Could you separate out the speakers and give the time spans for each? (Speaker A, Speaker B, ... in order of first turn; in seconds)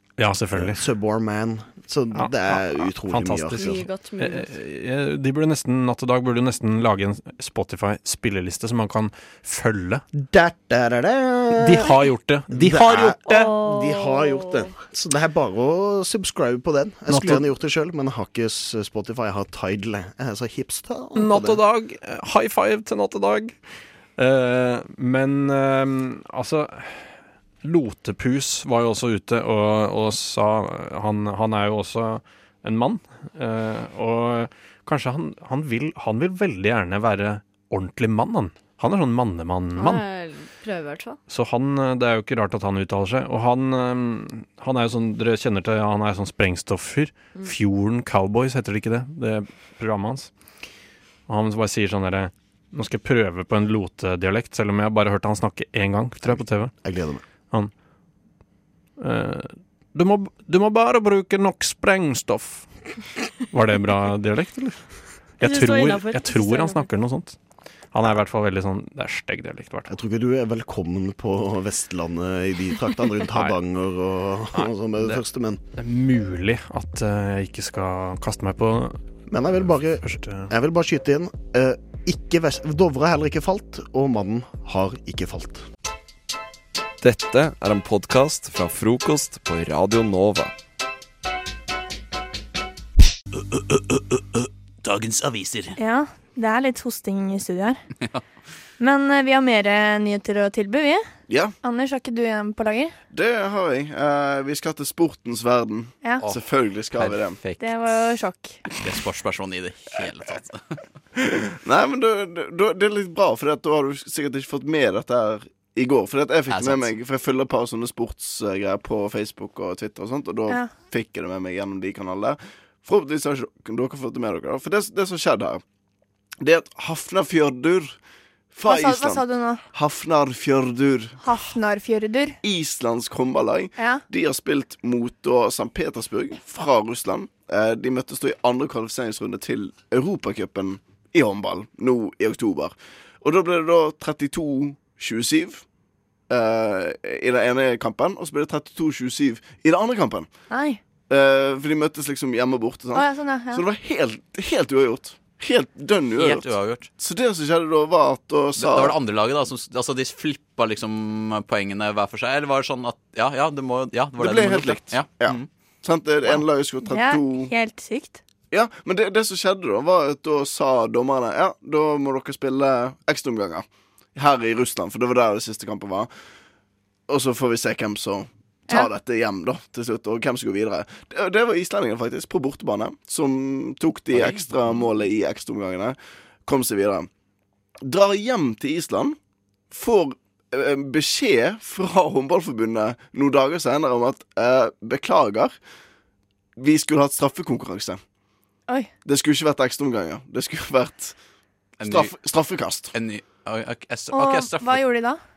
Speaker A: 0.2-0.8, 2.1-10.0, 11.6-13.5, 17.1-17.4, 21.2-23.6, 24.2-40.0, 41.3-50.3, 51.3-56.7, 59.0-62.7, 63.5-64.8, 65.4-67.4, 67.9-69.9, 74.5-75.2, 75.8-79.0, 79.5-80.5
Speaker B: 0.6-3.8, 10.2-21.6, 56.8-57.2, 69.9-75.6, 79.3-85.6
Speaker C: 3.5-4.5, 13.3-14.8, 39.8-41.2, 65.4-66.9
Speaker D: 87.0-90.5
Speaker E: 94.8-95.7, 106.2-108.0, 108.7-110.6, 116.5-116.9, 156.2-156.9, 158.6-165.5, 184.1-184.9, 201.8-202.2, 202.9-204.8
Speaker F: 95.8-97.8, 98.8-101.0, 101.6-102.9, 107.6-108.6, 120.5-120.8, 128.7-129.6, 131.2-132.4, 133.8-134.0, 150.5-150.8, 152.9-153.7, 166.8-168.2, 204.1-205.2
Speaker G: 101.3-101.5, 103.1-107.4, 111.2-125.6, 126.4-128.0, 128.5-131.2, 132.4-145.7, 146.3-150.3, 151.1-159.0, 164.2-167.5, 168.5-176.1, 177.1-187.1, 187.8-189.2, 189.7-195.6, 196.6-198.0, 199.1-201.2, 201.8-202.9